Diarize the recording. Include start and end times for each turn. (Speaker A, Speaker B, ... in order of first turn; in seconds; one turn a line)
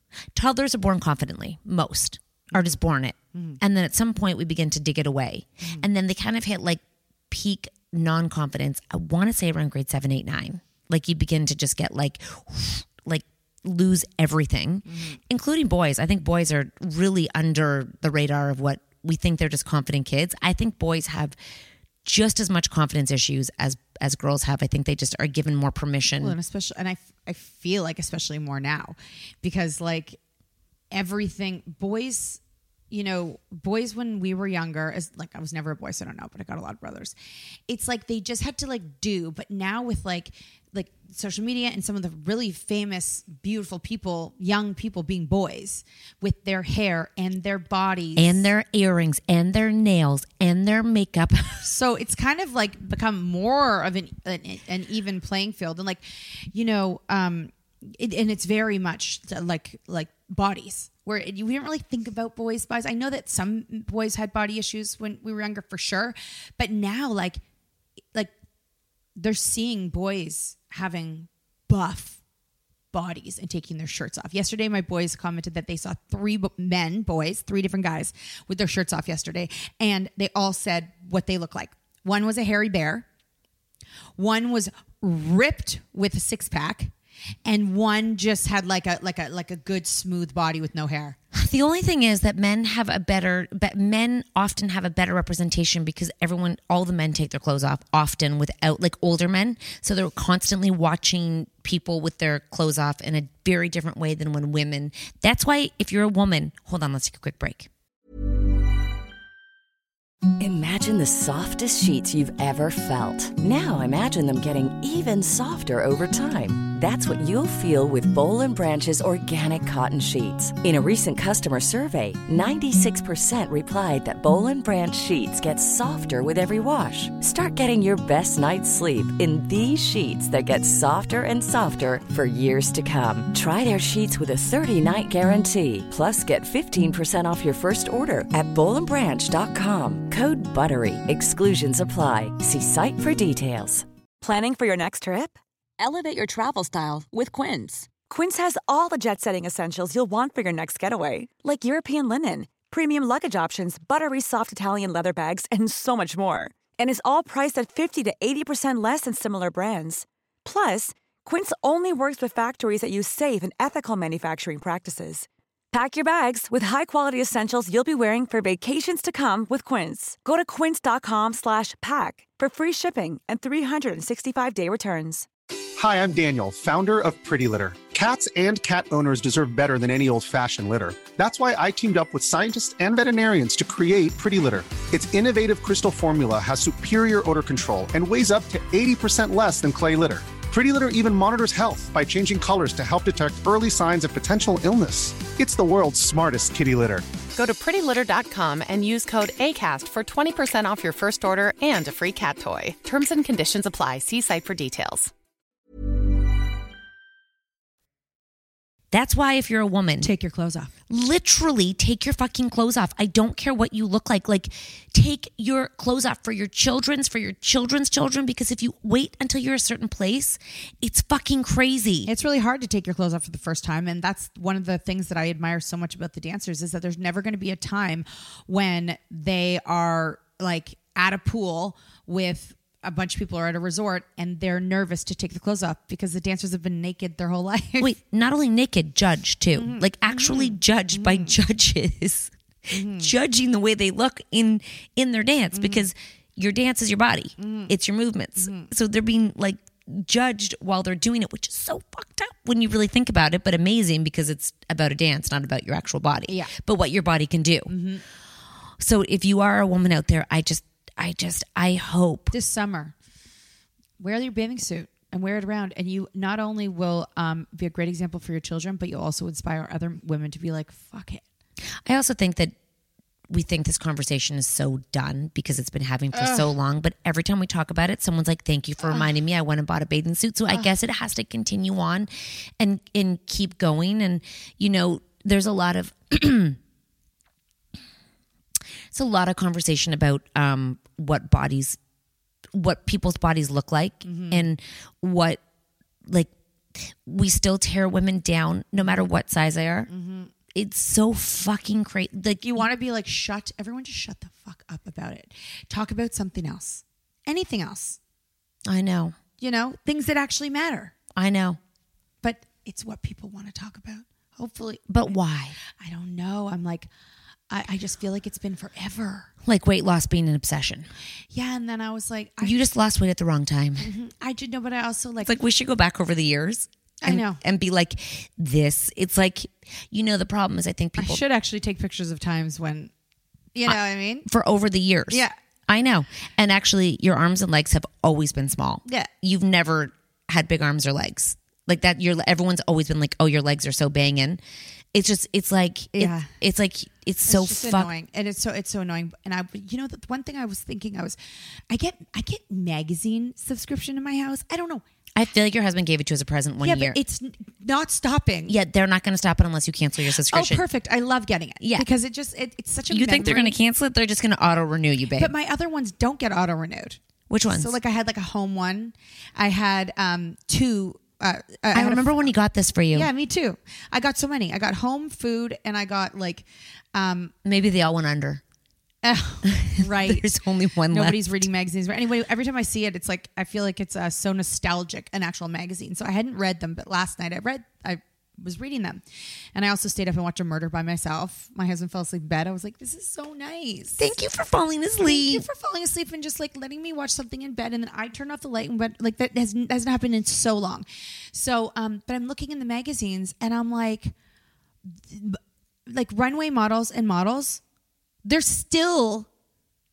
Speaker A: 0.3-21.4
Speaker B: 3.3-3.6
Speaker B: 5.6-5.9
Speaker B: 14.9-15.2
Speaker A: 22.1-26.4
Speaker B: 26.2-30.2
Speaker B: 30.9-32.4
Speaker B: 32.9-37.1
Speaker B: 37.7-48.5
Speaker A: 48.2-51.7
Speaker B: 51.6-67.4
Speaker B: 69.2-72.2
Speaker B: 72.9-83.0
Speaker B: 84.2-86.9
Speaker B: 87.5-91.2
Speaker A: 91.3-107.7
Speaker C: 110.4-143.9
Speaker D: 144.2-175.3
Speaker E: 175.8-197.0
Speaker F: 197.3-205.1
Speaker A: 208.9-210.1
Speaker B: 210.0-210.7
Speaker A: 210.9-222.1
Speaker B: 222.1-237.9
Speaker A: 237.8-257.7
Speaker B: 239.6-241.4
Speaker B: 242.7-243.1
Speaker B: 245.5-245.9
Speaker B: 247.4-247.7
Speaker B: 248.4-248.7
Speaker B: 256.3-256.5
Speaker B: 257.7-258.0
Speaker A: 258.8-262.3
Speaker B: 262.3-262.9
Speaker B: 264.0-271.2
Speaker A: 271.9-272.6
Speaker A: 273.3-282.1
Speaker B: 276.1-276.5
Speaker B: 278.8-279.1
Speaker A: 282.6-286.6
Speaker A: 288.9-291.8
Speaker A: 292.5-295.4
Speaker B: 294.1-294.5
Speaker A: 296.1-299.9
Speaker B: 298.8-299.1
Speaker B: 299.9-300.3
Speaker A: 300.6-302.7
Speaker B: 302.4-308.0
Speaker A: 308.7-309.2
Speaker B: 309.4-310.9
Speaker A: 311.2-311.6
Speaker B: 312.2-315.0
Speaker A: 314.9-315.6
Speaker B: 315.8-316.9
Speaker B: 317.5-319.3
Speaker A: 319.4-320.9
Speaker B: 321.3-322.6
Speaker A: 322.4-323.9
Speaker B: 323.8-325.4
Speaker A: 325.2-331.2
Speaker B: 327.0-327.4
Speaker B: 331.0-332.9
Speaker B: 333.5-334.3
Speaker A: 333.7-344.4
Speaker A: 344.9-347.9
Speaker B: 345.9-346.3
Speaker B: 347.2-351.2
Speaker B: 351.7-354.8
Speaker A: 355.1-357.0
Speaker B: 356.6-358.5
Speaker A: 358.5-360.6
Speaker B: 360.2-363.6
Speaker A: 361.6-361.9
Speaker A: 362.9-365.3
Speaker B: 365.1-372.3
Speaker A: 367.3-367.8
Speaker A: 371.7-373.1
Speaker B: 372.9-377.3
Speaker A: 377.4-378.4
Speaker B: 379.0-380.3
Speaker A: 379.5-381.5
Speaker B: 380.9-389.0
Speaker B: 389.6-394.1
Speaker A: 394.0-395.4
Speaker B: 395.0-404.1
Speaker B: 405.0-407.6
Speaker B: 408.2-409.3